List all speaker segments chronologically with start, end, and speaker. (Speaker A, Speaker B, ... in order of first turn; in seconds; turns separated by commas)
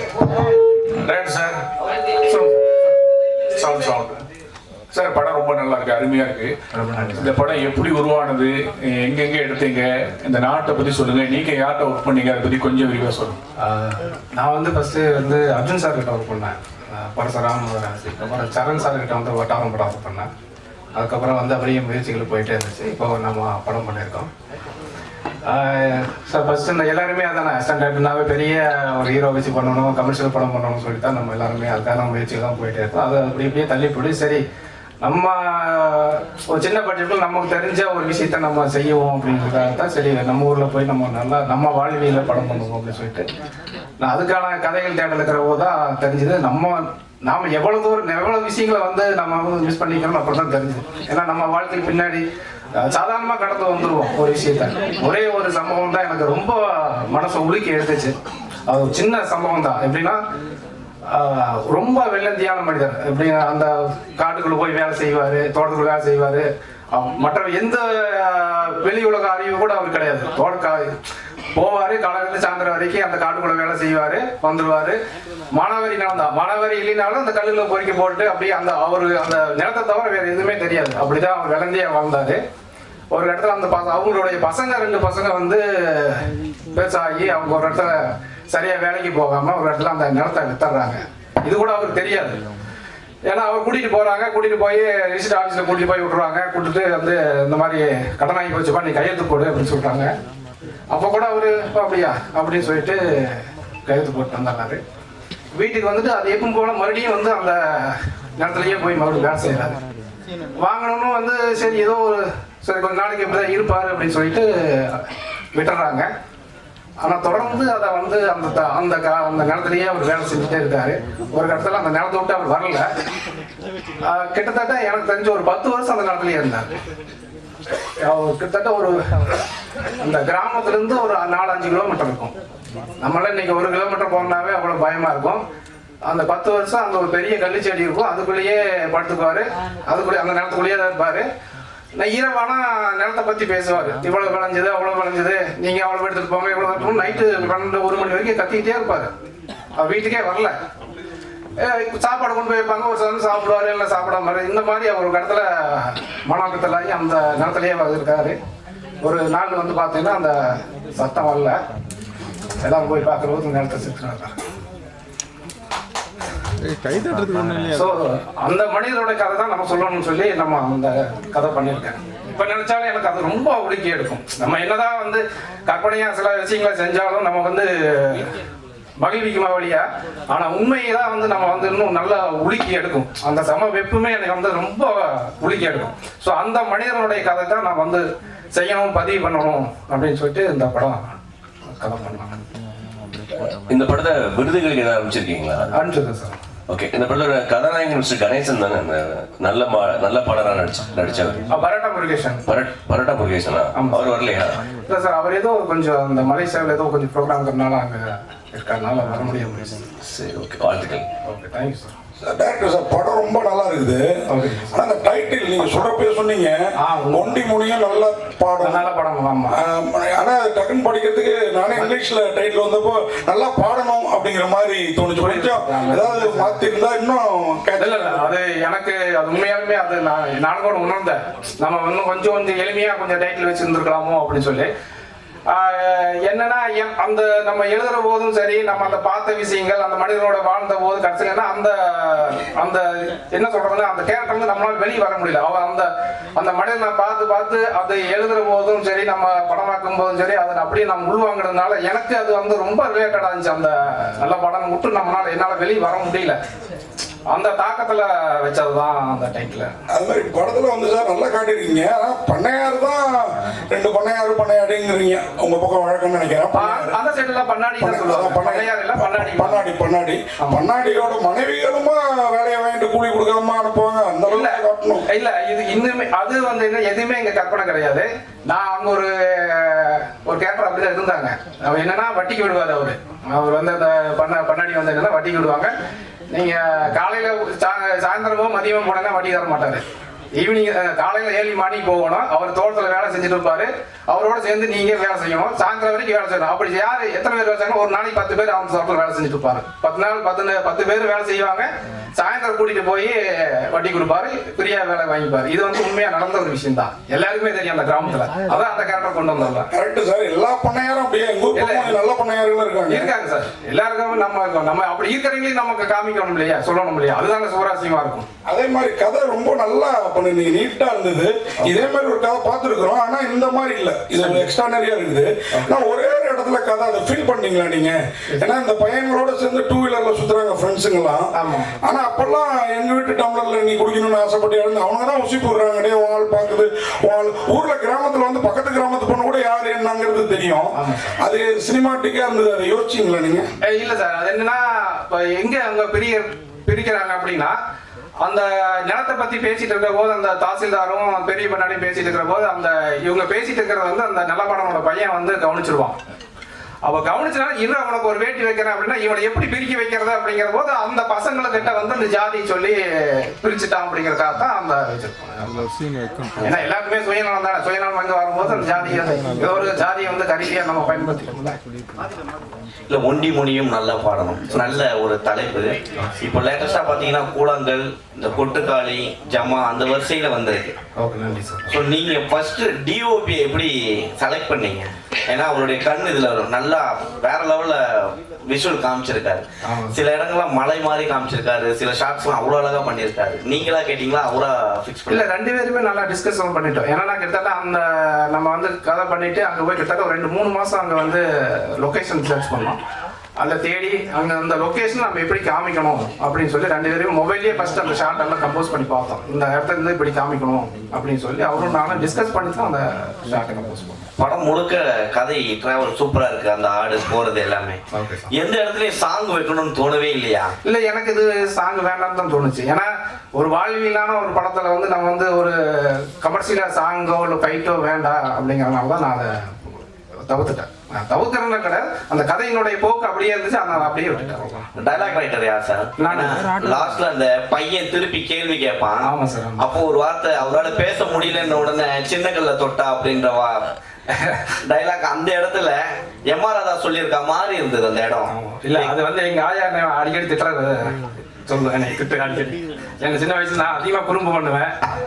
Speaker A: 1.0-1.6, Speaker A: 3.6-4.1, Speaker A: 4.9-6.5, Speaker B: 6.7-7.3, Speaker A: 7.2-13.4, Speaker B: 13.6-20.3, Speaker B: 21.0-24.3, Speaker B: 25.5-34.4, Speaker B: 35.0-43.2, Speaker B: 44.0-52.2, Speaker B: 52.8-58.1, Speaker B: 58.7-60.2, Speaker B: 61.1-70.9, Speaker B: 71.5-75.0, Speaker B: 75.5-82.4, Speaker B: 83.1-92.4, Speaker B: 93.3-100.1, Speaker B: 100.9-104.8, Speaker B: 105.5-109.7, Speaker B: 110.6-116.1, Speaker B: 117.0-122.9, Speaker B: 124.0-126.7, Speaker B: 128.0-128.9, Speaker B: 130.0-132.3, Speaker B: 133.0-135.4, Speaker B: 136.1-141.3, Speaker B: 142.0-149.1, Speaker B: 149.8-150.5, Speaker B: 151.6-158.4, Speaker B: 159.0-161.6, Speaker B: 162.6-164.3, Speaker B: 167.7-178.2, Speaker B: 179.0-191.1, Speaker B: 191.7-192.3, Speaker C: 193.7-195.7, Speaker B: 195.7-196.3, Speaker C: 196.7-201.4, Speaker B: 201.5-202.4, Speaker C: 202.5-204.6, Speaker B: 203.7-204.1, Speaker B: 204.9-209.8, Speaker C: 210.0-211.0, Speaker B: 211.2-211.9, Speaker D: 212.2-214.2, Speaker B: 214.3-214.7, Speaker D: 214.7-218.8, Speaker B: 216.8-217.4, Speaker B: 218.6-219.6, Speaker D: 219.5-228.2, Speaker B: 225.2-226.6, Speaker B: 227.8-234.7, Speaker B: 235.5-256.4, Speaker B: 257.3-259.7, Speaker D: 259.9-266.9, Speaker B: 266.5-269.6, Speaker D: 267.8-275.1, Speaker B: 274.3-285.7, Speaker B: 286.3-289.8, Speaker B: 290.4-309.7, Speaker D: 309.7-313.1, Speaker B: 311.5-312.0, Speaker B: 312.9-318.2, Speaker D: 318.4-331.3, Speaker B: 321.6-321.9, Speaker B: 324.1-324.4, Speaker B: 325.5-325.8, Speaker B: 331.3-331.7, Speaker D: 331.8-343.5, Speaker B: 340.7-341.2, Speaker B: 343.6-347.6, Speaker B: 348.2-355.9, Speaker B: 356.9-365.6, Speaker B: 366.4-371.6, Speaker E: 372.9-380.7, Speaker B: 381.0-381.7, Speaker E: 381.7-395.2, Speaker B: 389.6-390.0, Speaker B: 395.1-402.8, Speaker B: 403.4-414.0, Speaker E: 414.2-417.8, Speaker B: 417.9-418.3, Speaker E: 418.3-420.5, Speaker B: 420.6-434.7, Speaker E: 434.8-439.1, Speaker B: 436.0-436.4, Speaker B: 439.0-439.6, Speaker E: 439.6-443.7, Speaker B: 444.1-444.4, Speaker E: 444.6-448.9, Speaker B: 448.3-450.9, Speaker B: 451.4-454.7